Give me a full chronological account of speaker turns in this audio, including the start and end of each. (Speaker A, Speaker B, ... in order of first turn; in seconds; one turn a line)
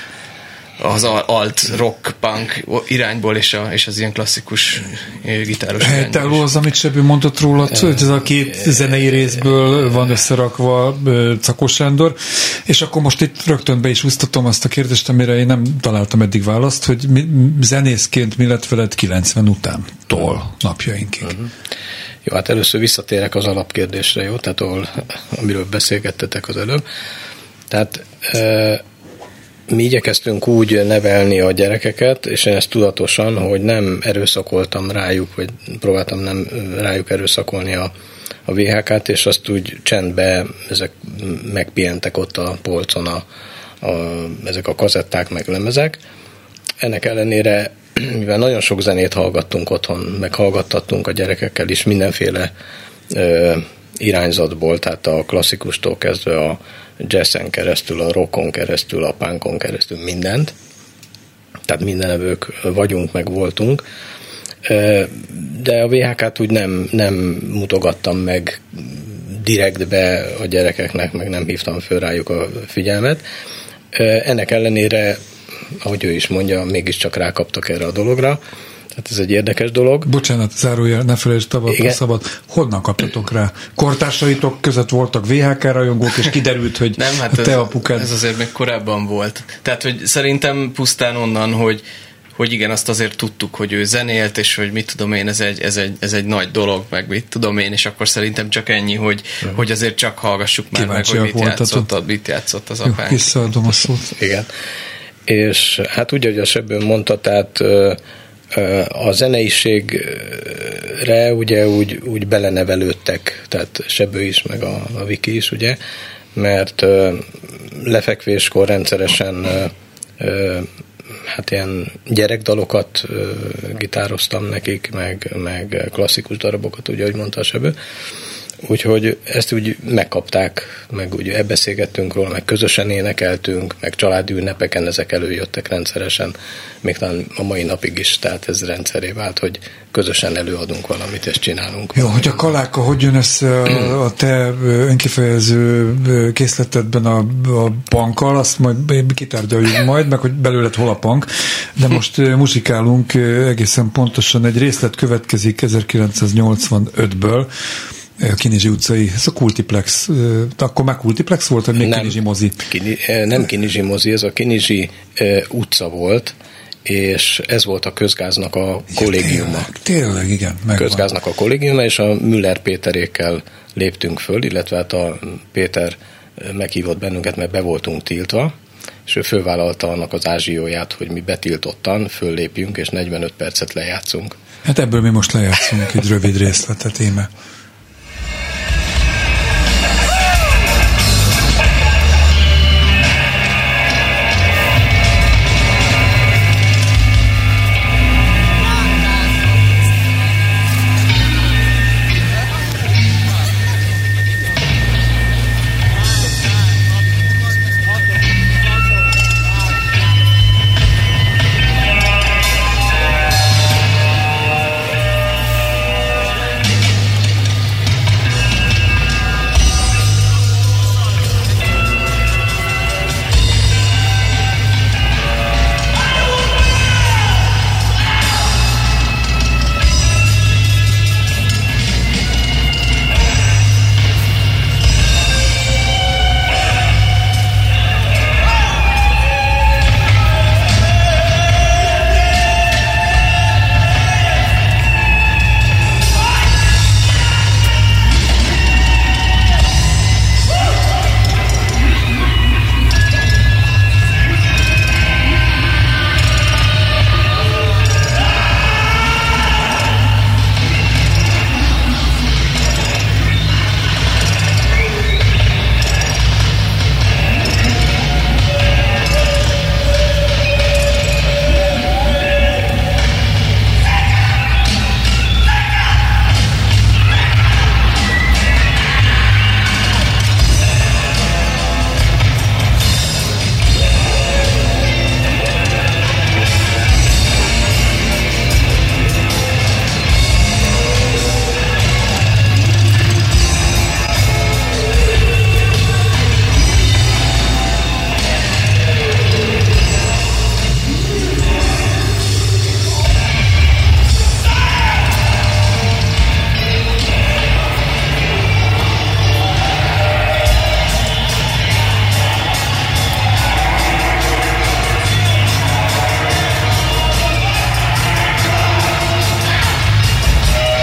Speaker A: 0.8-6.5
Speaker B: 5.8-21.4
Speaker C: 22.2-26.8
Speaker C: 27.7-28.8
Speaker C: 29.7-37.9
Speaker C: 38.5-43.2
Speaker C: 43.8-46.0
Speaker C: 46.8-52.5
Speaker C: 53.1-60.5
Speaker C: 61.7-63.8
Speaker C: 64.7-73.2
Speaker C: 73.9-75.2
Speaker C: 75.7-78.4
Speaker C: 79.0-80.1
Speaker B: 80.0-88.1
Speaker A: 87.0-91.8
Speaker A: 92.4-103.3
Speaker B: 100.7-101.9
Speaker B: 102.8-104.1
Speaker C: 104.2-104.5
Speaker C: 105.3-108.0
Speaker C: 108.5-115.8
Speaker C: 116.4-120.7
Speaker C: 121.3-127.8
Speaker C: 128.7-142.4
Speaker B: 142.0-157.5
Speaker B: 158.2-162.7
Speaker C: 161.8-162.2
Speaker C: 162.7-169.7
Speaker B: 168.9-171.1
Speaker C: 170.8-178.5
Speaker C: 179.1-184.4
Speaker B: 184.7-187.3